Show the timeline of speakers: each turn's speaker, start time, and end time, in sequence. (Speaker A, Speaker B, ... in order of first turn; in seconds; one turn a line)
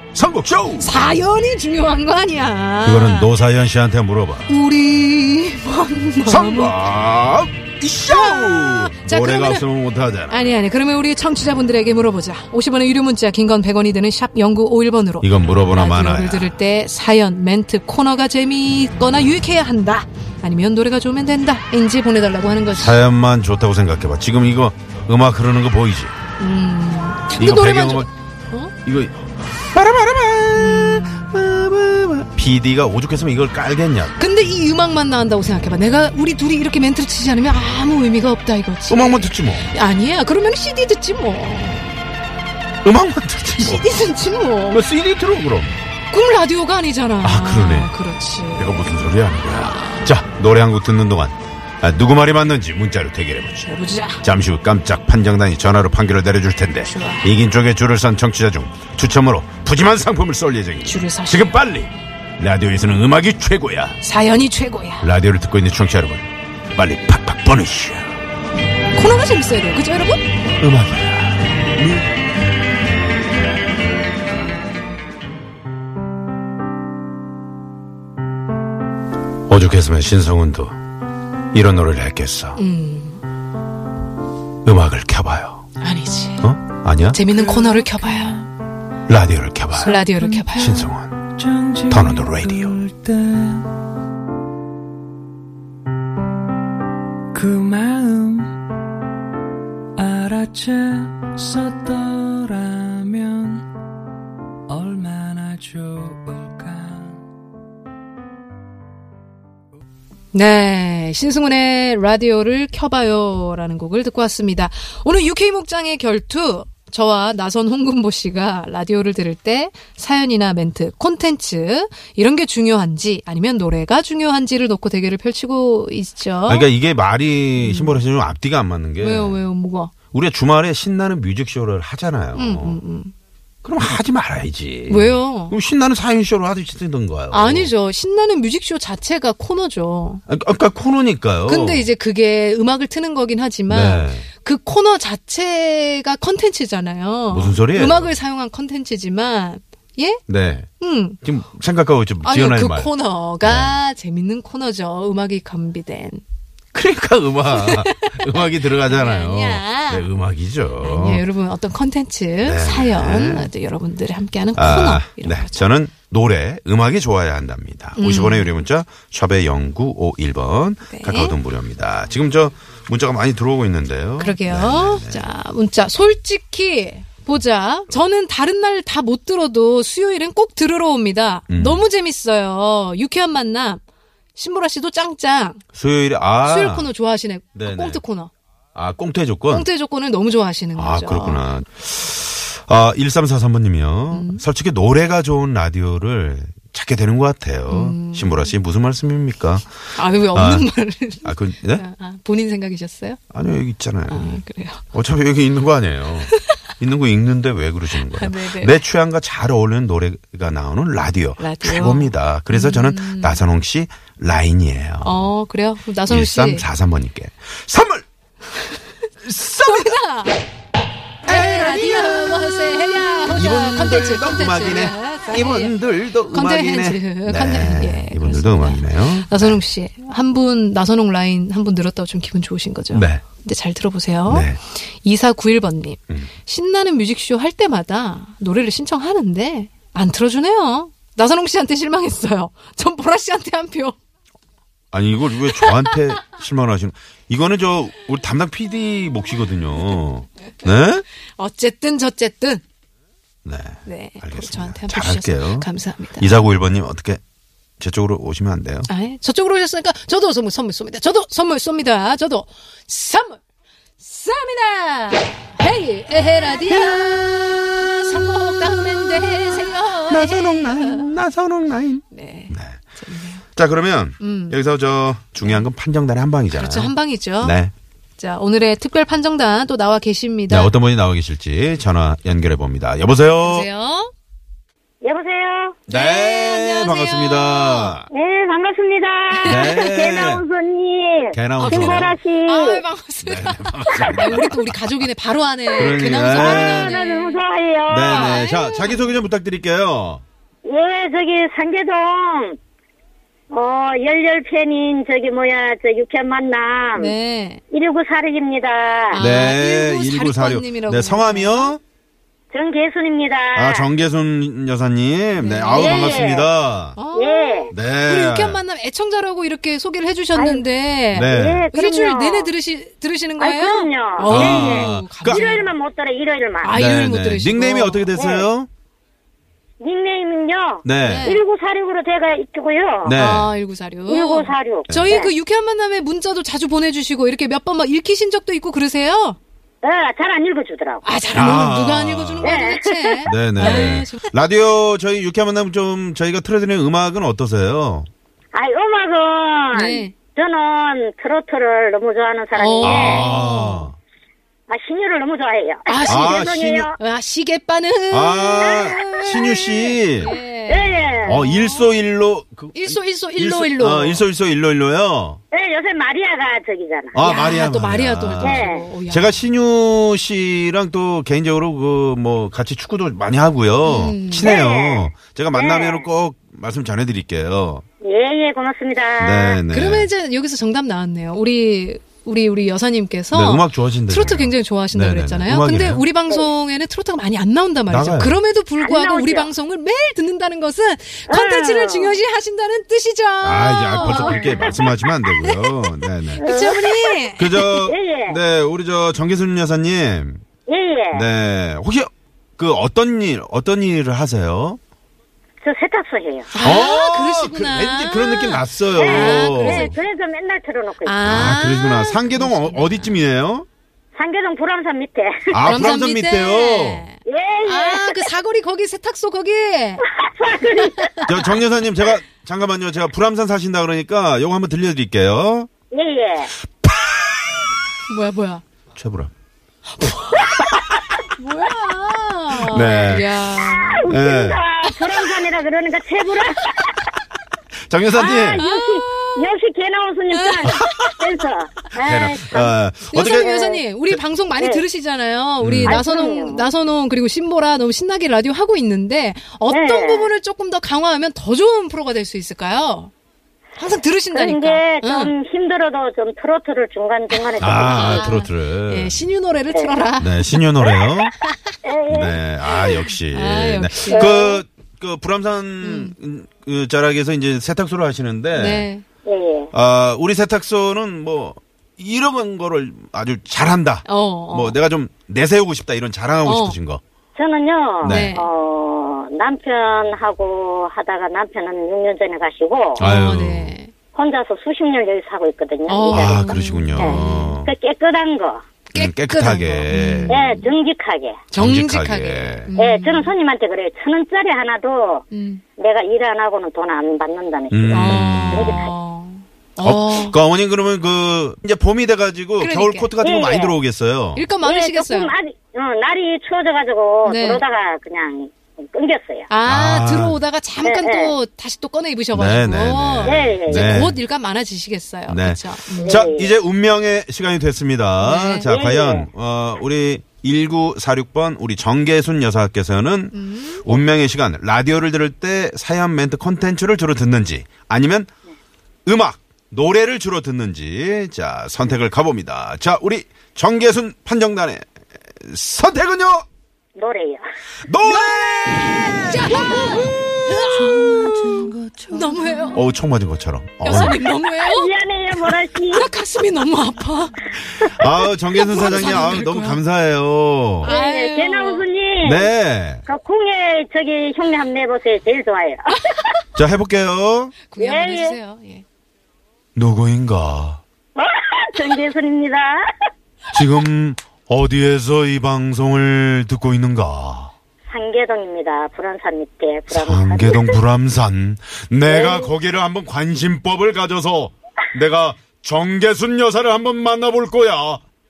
Speaker A: 0.1-1.2
Speaker B: 0.8-3.3
Speaker A: 2.8-4.5
Speaker B: 4.5-6.8
Speaker A: 6.2-10.5
Speaker B: 8.0-9.6
Speaker B: 10.3-23.0
Speaker A: 15.2-16.6
Speaker A: 22.7-26.1
Speaker B: 26.4-28.7
Speaker A: 27.4-28.1
Speaker A: 28.9-29.1
Speaker A: 29.7-34.2
Speaker B: 30.5-31.3
Speaker B: 34.2-42.0
Speaker A: 38.9-39.7
Speaker A: 42.8-44.0
Speaker B: 43.6-44.8
Speaker A: 44.7-45.8
Speaker B: 46.1-48.9
Speaker A: 47.2-47.9
Speaker A: 48.6-53.7
Speaker B: 49.7-50.0
Speaker B: 53.6-54.2
Speaker A: 54.2-64.0
Speaker B: 56.8-57.3
Speaker B: 60.8-61.6
Speaker B: 64.0-65.1
Speaker A: 65.0-68.2
Speaker B: 68.9-70.2
Speaker A: 70.6-72.1
Speaker A: 79.5-80.8
Speaker A: 81.5-82.6
Speaker B: 82.5-83.2
Speaker A: 84.7-85.7
Speaker B: 85.8-86.5
Speaker A: 86.4-87.2
Speaker B: 87.1-88.4
Speaker C: 87.6-88.3
Speaker A: 89.1-91.2
Speaker B: 89.8-90.9
Speaker C: 91.4-93.7
Speaker A: 91.9-92.8
Speaker C: 97.3-98.7
Speaker C: 100.0-103.7
Speaker C: 104.7-107.2
Speaker B: 110.3-126.7
Speaker A: 126.5-129.4
Speaker B: 127.6-128.0
Speaker B: 129.0-129.9
Speaker A: 130.1-132.8
Speaker B: 132.3-133.1
Speaker A: 133.6-137.7
Speaker B: 134.9-135.6
Speaker B: 137.3-140.2
Speaker A: 140.3-141.9
Speaker B: 141.5-150.2
Speaker A: 143.7-144.3
Speaker A: 147.3-148.1
Speaker A: 150.3-150.7
Speaker B: 150.8-151.2
Speaker A: 151.2-153.8
Speaker B: 152.2-156.2
Speaker A: 156.7-161.2
Speaker B: 157.5-160.1
Speaker B: 160.8-165.7
Speaker A: 162.4-163.5
Speaker A: 164.6-175.3
Speaker B: 168.0-168.6
Speaker B: 170.9-171.4
Speaker B: 174.2-183.8
Speaker A: 181.5-181.8
Speaker B: 184.3-185.6
Speaker A: 185.7-186.9
Speaker B: 186.4-188.3
Speaker A: 187.6-188.0
Speaker A: 188.8-189.7
Speaker B: 189.5-191.5
Speaker A: 190.8-199.7
Speaker B: 194.1-194.4
Speaker B: 197.7-198.4
Speaker B: 199.9-203.2
Speaker A: 200.2-200.7
Speaker A: 201.2-201.8
Speaker A: 203.3-204.4
Speaker B: 204.1-204.8
Speaker A: 204.9-215.3
Speaker B: 208.0-208.8
Speaker B: 211.4-213.4
Speaker B: 215.0-216.7
Speaker A: 216.1-218.1
Speaker A: 219.2-219.9
Speaker B: 219.6-220.4
Speaker A: 221.3-222.4
Speaker B: 221.3-225.8
Speaker A: 223.3-229.6
Speaker B: 226.3-244.0
Speaker A: 232.9-233.2
Speaker A: 234.3-234.6
Speaker A: 244.9-251.1
Speaker B: 245.5-246.0
Speaker B: 251.4-252.6
Speaker A: 253.4-257.2
Speaker B: 253.8-256.5
Speaker A: 257.8-258.9
Speaker B: 258.9-263.4
Speaker B: 264.0-271.1
Speaker A: 266.8-267.2
Speaker A: 270.1-272.8
Speaker B: 272.1-273.4
Speaker A: 273.5-277.7
Speaker B: 274.2-274.6
Speaker B: 275.4-275.7
Speaker B: 276.5-277.6
Speaker B: 278.2-280.7
Speaker A: 280.5-283.7
Speaker B: 283.4-284.1
Speaker D: 285.0-285.8
Speaker B: 285.9-288.0
Speaker A: 285.9-288.1
Speaker D: 288.1-292.8
Speaker B: 289.4-289.8
Speaker A: 289.5-290.4
Speaker A: 291.3-292.1
Speaker B: 291.6-297.4
Speaker A: 293.2-294.8
Speaker D: 293.9-294.4
Speaker D: 295.8-298.4
Speaker A: 295.8-296.9
Speaker A: 297.9-300.2
Speaker B: 298.0-299.1
Speaker D: 300.6-302.6
Speaker D: 303.5-307.1
Speaker B: 307.0-307.6
Speaker D: 307.7-309.2
Speaker B: 309.1-311.8
Speaker A: 309.2-311.8
Speaker D: 312.5-313.9
Speaker A: 313.6-317.0
Speaker B: 315.4-316.3
Speaker D: 315.7-316.5
Speaker B: 317.0-325.7
Speaker D: 317.1-317.7
Speaker A: 317.7-318.6
Speaker D: 320.4-320.7
Speaker A: 321.1-321.7
Speaker D: 321.2-322.5
Speaker D: 323.4-326.8
Speaker A: 324.2-325.6
Speaker B: 326.6-328.1
Speaker A: 326.7-328.7
Speaker D: 328.1-328.5
Speaker D: 329.8-333.3
Speaker A: 330.8-331.4
Speaker B: 331.0-331.4
Speaker A: 333.0-333.5
Speaker B: 333.1-339.4
Speaker D: 334.1-335.3
Speaker D: 339.8-341.1
Speaker B: 341.0-344.3
Speaker A: 341.3-342.6
Speaker D: 342.4-343.9
Speaker A: 343.2-348.1
Speaker D: 348.5-353.3
Speaker B: 349.7-350.1
Speaker B: 352.5-353.9
Speaker A: 352.8-353.9
Speaker D: 354.7-357.0
Speaker B: 355.9-356.5
Speaker A: 356.1-356.9
Speaker B: 357.0-361.9
Speaker A: 358.1-360.4
Speaker D: 358.7-359.2
Speaker D: 360.7-361.4
Speaker A: 361.2-365.4
Speaker B: 362.7-364.3
Speaker D: 365.5-367.2
Speaker A: 367.1-377.8
Speaker B: 367.2-369.4
Speaker D: 368.4-368.9
Speaker B: 373.8-374.5
Speaker D: 374.4-376.1
Speaker D: 378.0-379.6
Speaker A: 379.2-380.1
Speaker B: 379.7-397.6
Speaker A: 383.3-386.0
Speaker A: 387.9-388.4
Speaker D: 388.8-389.5
Speaker D: 391.3-392.2
Speaker A: 393.4-396.5
Speaker D: 394.0-394.8
Speaker D: 396.4-397.1
Speaker A: 397.4-400.4
Speaker D: 397.7-398.4
Speaker D: 400.7-401.3
Speaker A: 401.1-404.8
Speaker D: 405.6-406.6
Speaker B: 406.5-409.9
Speaker A: 406.6-410.0
Speaker D: 409.0-411.5
Speaker B: 411.0-413.2
Speaker A: 411.2-413.7
Speaker D: 414.2-415.6
Speaker A: 415.5-417.1
Speaker B: 415.6-420.0
Speaker D: 417.3-418.3
Speaker D: 420.1-421.2
Speaker B: 420.6-421.4
Speaker A: 421.3-425.7
Speaker D: 425.9-426.6
Speaker A: 426.8-427.5
Speaker B: 428.1-428.6
Speaker A: 428.9-429.3
Speaker B: 430.0-430.7
Speaker D: 430.7-431.1
Speaker B: 431.4-434.1
Speaker A: 432.5-433.5
Speaker D: 433.4-437.0
Speaker A: 434.1-434.6
Speaker B: 434.8-435.3
Speaker A: 437.9-438.6
Speaker D: 438.1-442.6
Speaker B: 438.5-439.5
Speaker B: 440.3-441.2
Speaker A: 440.6-441.1
Speaker A: 442.0-443.5
Speaker B: 442.5-453.1
Speaker D: 443.1-443.8
Speaker D: 444.6-444.8
Speaker A: 445.6-446.0
Speaker D: 445.8-446.7
Speaker D: 449.7-450.3
Speaker B: 453.8-455.3
Speaker D: 454.3-458.4
Speaker B: 457.3-461.7
Speaker A: 457.6-459.3
Speaker D: 459.7-460.0
Speaker A: 460.2-461.3
Speaker D: 461.8-462.4
Speaker A: 462.1-468.9
Speaker B: 462.7-464.6
Speaker D: 464.1-464.6
Speaker B: 465.8-466.1
Speaker B: 468.5-469.1
Speaker D: 469.2-469.7
Speaker A: 469.7-477.0
Speaker B: 474.1-474.8
Speaker B: 476.4-476.8
Speaker D: 477.4-483.0
Speaker A: 478.0-478.3
Speaker B: 478.0-478.5
Speaker A: 483.0-483.8
Speaker B: 483.0-483.9
Speaker D: 484.1-488.6
Speaker B: 485.9-487.6
Speaker A: 486.1-487.7
Speaker B: 488.9-490.7
Speaker A: 488.9-490.4
Speaker D: 490.3-491.4
Speaker B: 491.5-493.3
Speaker A: 491.6-492.7
Speaker D: 492.8-495.2
Speaker B: 495.3-495.6
Speaker D: 495.8-498.9
Speaker A: 497.7-498.9
Speaker B: 497.9-500.4
Speaker A: 499.8-504.5
Speaker B: 502.6-503.1
Speaker D: 503.2-503.8
Speaker B: 504.4-505.3
Speaker D: 504.6-509.5
Speaker B: 507.3-507.6
Speaker B: 509.5-516.3
Speaker A: 509.7-510.4
Speaker D: 510.8-511.3
Speaker A: 512.3-514.2
Speaker D: 513.2-514.1
Speaker A: 515.3-528.3
Speaker D: 516.0-516.5
Speaker B: 518.2-518.7
Speaker D: 518.7-519.3
Speaker B: 523.3-523.9
Speaker A: 529.1-534.9
Speaker A: 535.4-536.5
Speaker D: 537.0-537.4
Speaker A: 537.9-540.1
Speaker B: 538.0-542.8
Speaker C: 540.7-542.7
Speaker A: 542.7-544.3
Speaker B: 543.8-544.9
Speaker D: 544.6-546.1
Speaker B: 545.4-547.5
Speaker A: 547.8-550.9
Speaker B: 548.5-549.8
Speaker B: 550.8-551.8
Speaker D: 550.8-552.5
Speaker A: 552.2-553.0
Speaker D: 553.1-556.2
Speaker B: 556.1-556.4
Speaker A: 556.5-557.6
Speaker B: 557.6-558.9
Speaker D: 557.8-558.4
Speaker A: 559.8-560.8
Speaker D: 561.2-562.8
Speaker A: 563.5-567.5
Speaker D: 567.9-570.8
Speaker A: 569.9-578.0
Speaker D: 572.1-572.5